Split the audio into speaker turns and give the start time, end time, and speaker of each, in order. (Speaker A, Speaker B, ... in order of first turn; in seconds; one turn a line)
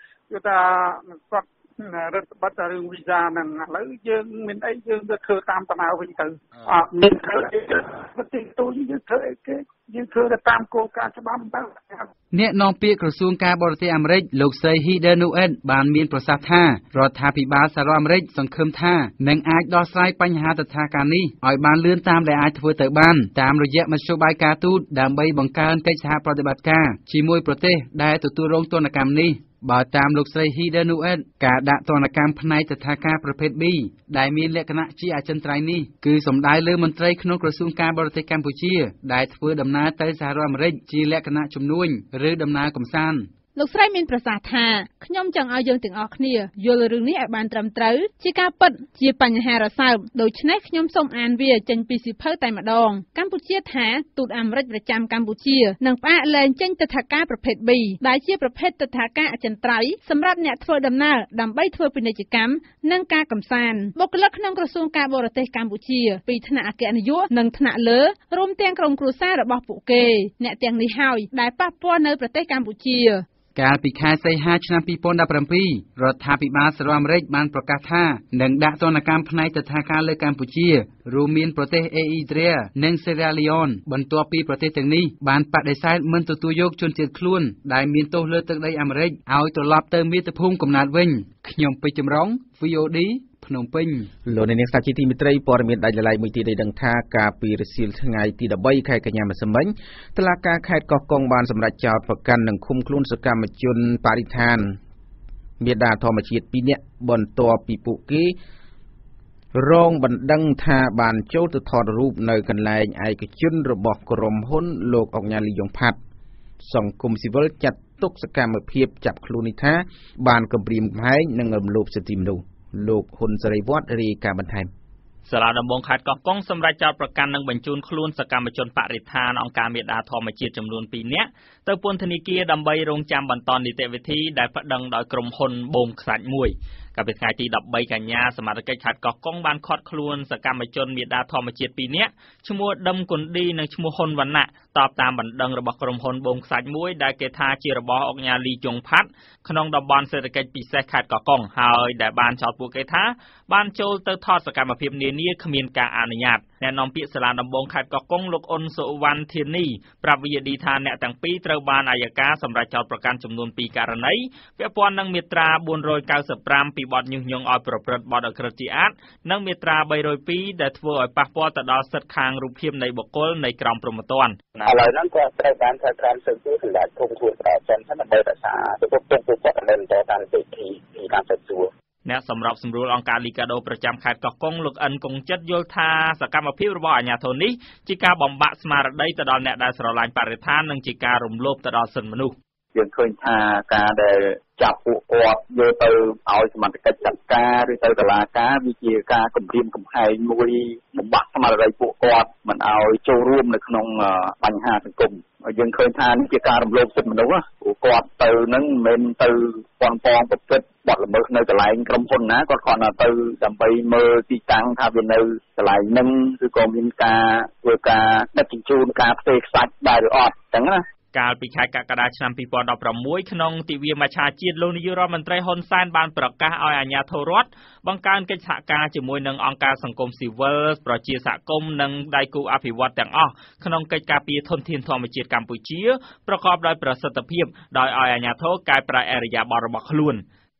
Speaker A: 0.3-12.1
Speaker B: 12.3-43.3
Speaker C: 43.5-73.2
Speaker B: 73.5-94.1
Speaker D: 94.2-104.8
Speaker D: 105.6-108.3
Speaker D: 109.5-116.0
Speaker D: 116.6-124.7
Speaker E: 125.2-174.7
Speaker F: 174.6-181.7
Speaker E: 182.0-192.3
Speaker F: 192.7-220.8
Speaker E: 221.1-240.2